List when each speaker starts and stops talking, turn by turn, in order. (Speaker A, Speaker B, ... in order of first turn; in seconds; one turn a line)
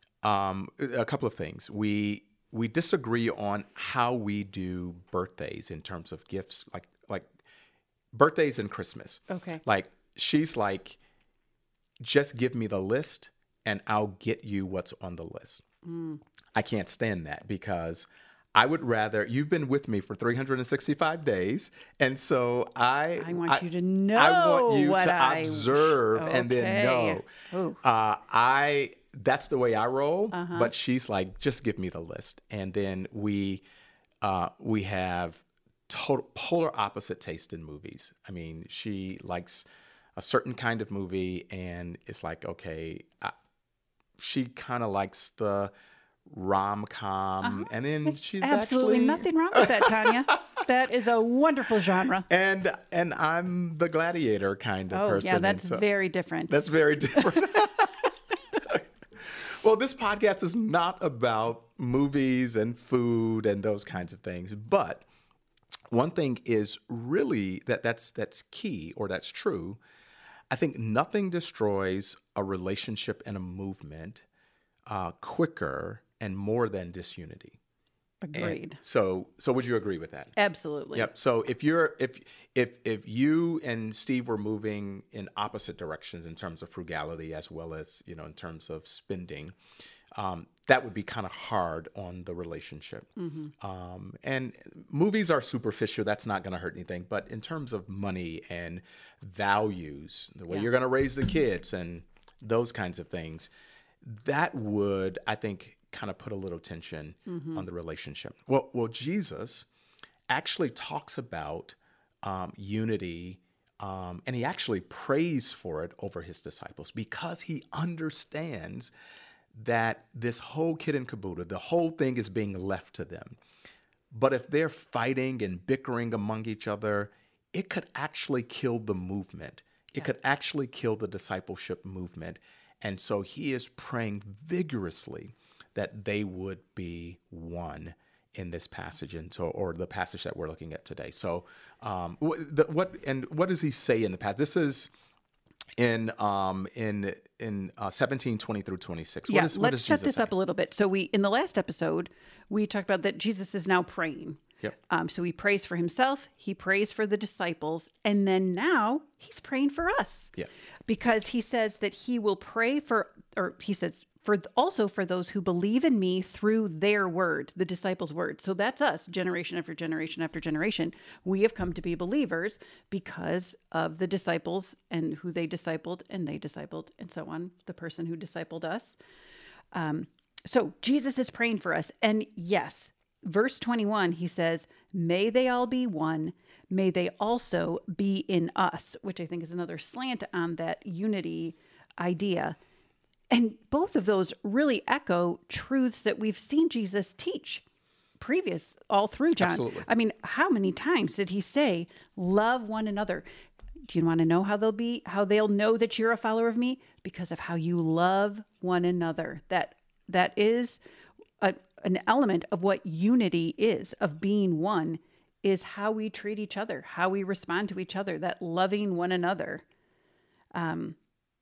Speaker A: 0.2-7.3
Speaker A: 8.1-11.0
Speaker B: 9.3-9.6
Speaker A: 12.0-15.6
Speaker B: 15.8-16.2
Speaker A: 16.5-27.3
Speaker B: 23.2-27.8
Speaker A: 27.8-33.6
Speaker B: 30.3-30.7
Speaker A: 34.2-39.6
Speaker A: 40.2-43.3
Speaker A: 44.2-45.7
Speaker A: 46.3-50.1
Speaker B: 47.4-52.3
Speaker A: 52.3-55.8
Speaker B: 54.9-56.6
Speaker A: 56.5-65.0
Speaker A: 65.9-69.8
Speaker A: 70.5-74.2
Speaker A: 74.9-77.6
Speaker B: 78.2-78.8
Speaker A: 78.3-80.3
Speaker B: 80.4-81.1
Speaker A: 80.9-89.5
Speaker A: 90.2-103.5
Speaker B: 93.2-93.5
Speaker A: 104.0-109.7
Speaker B: 107.3-107.7
Speaker A: 110.3-118.9
Speaker A: 119.5-123.4
Speaker A: 124.1-144.9
Speaker A: 145.8-150.3
Speaker B: 149.3-160.3
Speaker B: 160.9-179.0
Speaker B: 179.7-192.6
Speaker B: 193.3-197.6
Speaker B: 198.2-203.2
Speaker A: 199.4-199.9
Speaker B: 203.9-210.8
Speaker B: 211.4-219.6
Speaker B: 220.5-221.0